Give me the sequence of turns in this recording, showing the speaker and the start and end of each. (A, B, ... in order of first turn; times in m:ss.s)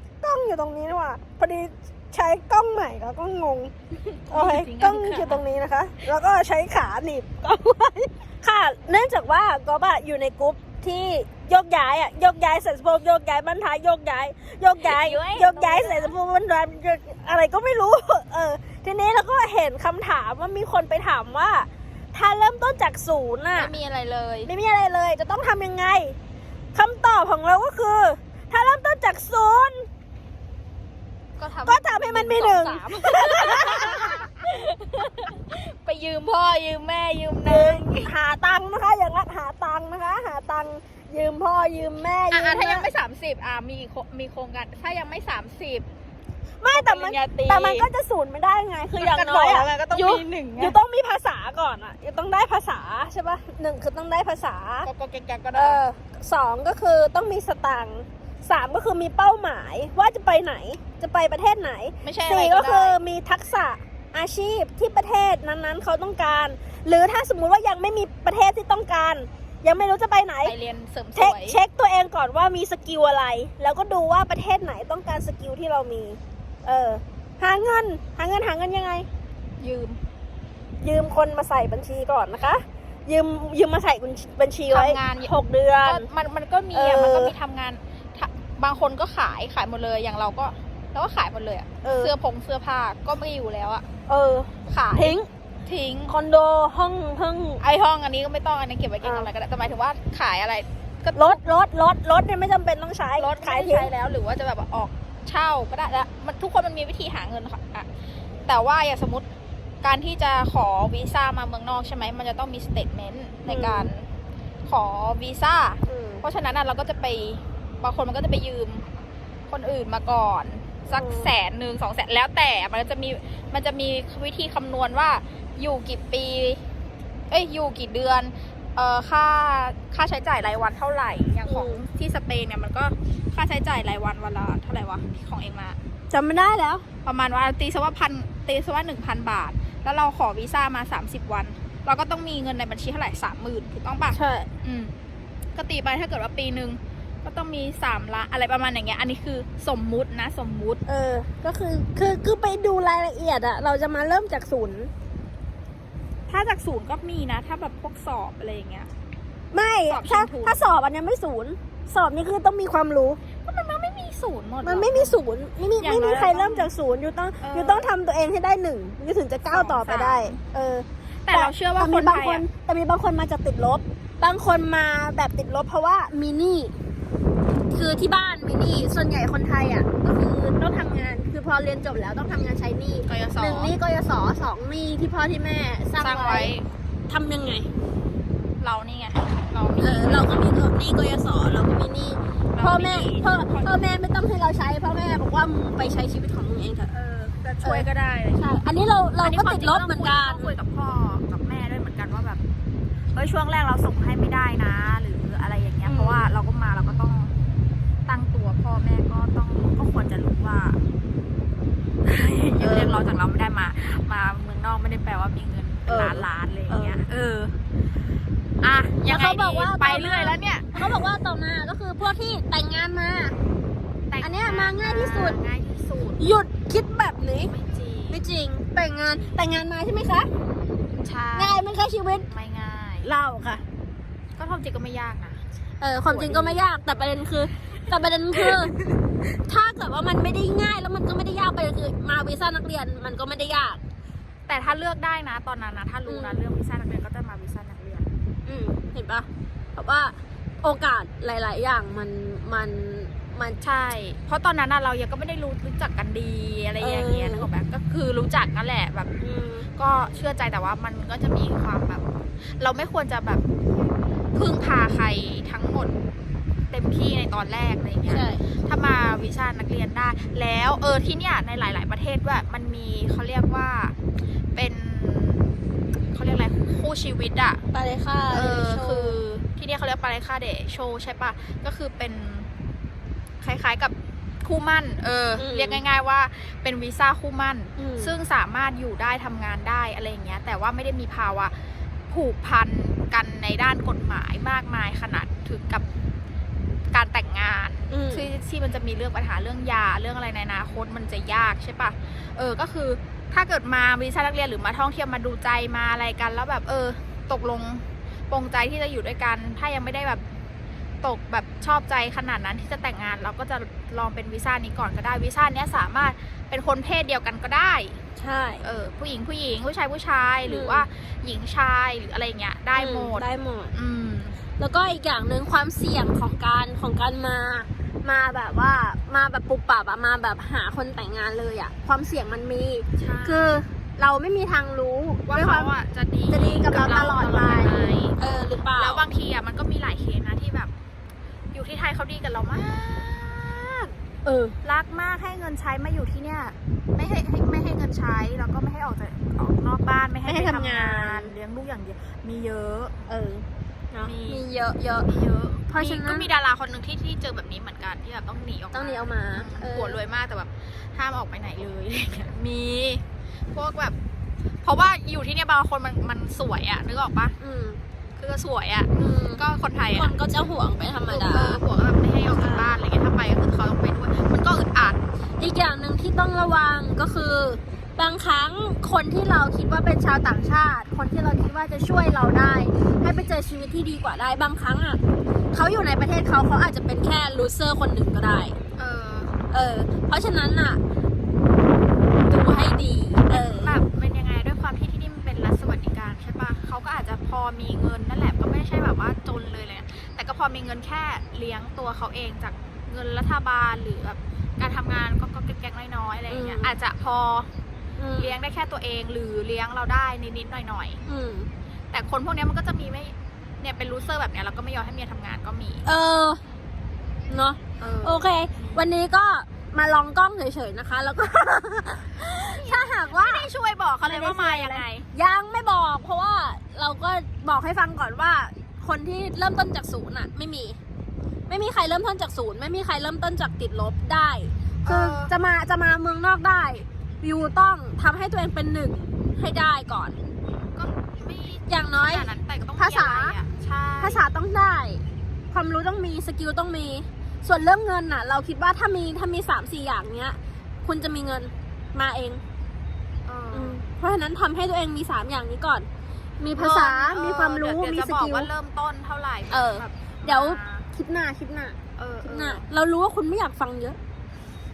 0:00.2-0:03.7 A
0:04.0-0:05.4 B
0:04.3-0:23.7 A
0:14.8-0:16.1 B
0:23.5-0:24.5 B
0:24.4-0:26.2 A
0:26.7-0:29.9 A
0:31.4-0:38.1 B
0:31.6-0:34.3 A
0:37.4-0:42.9 A
0:42.3-0:45.8 B
0:46.6-0:54.9 A
0:46.7-0:47.9 B
0:49.0-0:50.8 B
0:54.8-0:55.8 B
0:55.5-1:10.6 A
1:02.0-1:03.0 B
1:10.4-1:11.6 B
1:11.2-1:19.1 A
1:19.6-1:20.0 B
1:20.8-1:26.1 A
1:24.7-1:25.3 B
1:25.8-1:33.8 B
1:26.7-1:27.3 A
1:31.8-1:32.1 A
1:34.1-1:35.3 A
1:34.7-1:36.1 B
1:36.1-1:37.6 A
1:37.6-1:41.4 B
1:39.0-1:39.3 A
1:41.1-1:43.9 A
1:43.2-1:47.9 B
1:48.4-1:49.2 B
1:49.8-1:54.1 B
1:53.5-1:53.9 A
1:54.6-1:58.9 B
1:55.9-1:56.2 A
1:59.5-2:06.6 B
2:00.9-2:01.3 A
2:07.3-2:15.8 B
2:11.4-2:11.8 A
2:16.1-2:16.9 A
2:17.0-2:24.9 B
2:24.1-2:24.5 A
2:25.6-2:30.8 B
2:30.8-2:34.9 A
2:36.3-2:38.9 B
2:39.5-2:43.2 A
2:39.9-2:40.7 B
2:43.4-2:45.2 B
2:44.6-2:56.7 A
2:45.8-2:46.7 B
2:47.4-2:47.9 B
2:49.5-2:50.4 B
2:51.1-2:52.4 B
2:57.7-3:06.5 A
3:03.0-3:03.7 B
3:06.0-3:06.7 B
3:07.1-3:07.7 A
3:08.6-3:10.4 B
3:09.8-3:20.5 A
3:12.5-3:13.7 B
3:17.4-3:18.6 B
3:19.2-3:22.4 B
3:23.1-3:27.3 B
3:25.8-3:26.3 A
3:28.0-3:30.8 B
3:32.0-3:37.4 B
3:32.6-3:33.1 A
3:35.9-3:37.5 A
3:38.6-3:41.0 B
3:39.0-3:43.4 A
3:44.1-3:46.2 B
3:44.2-3:45.4 A
3:46.2-3:47.5 A
3:47.4-3:48.2 B
3:48.1-3:50.3 A
3:50.9-3:51.6 B
3:51.4-3:52.3 A
3:52.3-3:53.1 B
3:53.0-3:53.6 A
3:54.4-3:55.4 B
3:55.8-3:58.8 A
3:56.1-3:56.6 B
3:59.4-4:03.8 A
4:04.5-4:08.1 B
4:06.0-4:06.5 A
4:08.4-4:13.6 A
4:13.6-4:19.1 B
4:16.8-4:17.5 A
4:19.2-4:19.7 A
4:19.8-4:23.4 B
4:24.3-4:26.0 B
4:26.7-4:33.9 B
4:28.1-4:28.4 A
4:34.5-4:35.5 B
4:36.1-4:37.6 B
4:37.7-4:39.2 A
4:38.3-4:42.5 B
4:43.4-4:55.8 B
4:45.4-4:45.8 A
4:47.8-4:48.1 A
4:56.9-5:10.2 B
4:57.9-4:58.3 A
5:11.0-5:18.0 B
5:18.2-5:18.6 A
5:18.6-5:24.4 B
5:20.4-5:20.8 A
5:22.7-5:23.7 A
5:24.6-5:35.7 A
5:33.0-5:33.6 B
5:35.3-5:40.7 B
5:36.3-5:39.0 A
5:41.5-5:43.9 B
5:44.2-5:44.6 A
5:44.6-5:53.0 B
5:50.2-5:51.3 A
5:53.1-5:55.1 A
5:54.0-5:54.5 B
5:55.0-6:04.0 B
5:55.7-5:56.3 A
5:58.7-6:00.0 A
6:04.6-6:07.4 B
6:07.4-6:07.8 A
6:08.2-6:10.2 B
6:09.0-6:11.6 A
6:11.1-6:15.0 B
6:12.3-6:12.8 A
6:15.4-6:25.0 A
6:25.5-6:28.6 A
6:28.8-6:29.3 B
6:29.5-6:30.8 A
6:32.3-6:47.5 B
6:32.4-6:33.8 A
6:46.3-6:46.8 A
6:48.0-6:48.3 A
6:48.2-6:51.0 B
6:51.1-6:51.5 A
6:51.9-6:55.9 B
6:55.8-6:56.4 A
6:57.3-7:03.5 A
6:57.8-6:58.8 B
7:02.4-7:05.1 B
7:04.0-7:10.8 A
7:11.5-7:20.2 A
7:14.8-7:15.3 B
7:20.8-7:24.2 B
7:21.7-7:23.4 A
7:24.0-7:32.4 A
7:33.2-7:33.8 B
7:33.5-7:35.9 A
7:36.4-7:38.5 A
7:36.5-7:40.9 B
7:39.5-7:44.0 A
7:42.0-7:42.7 B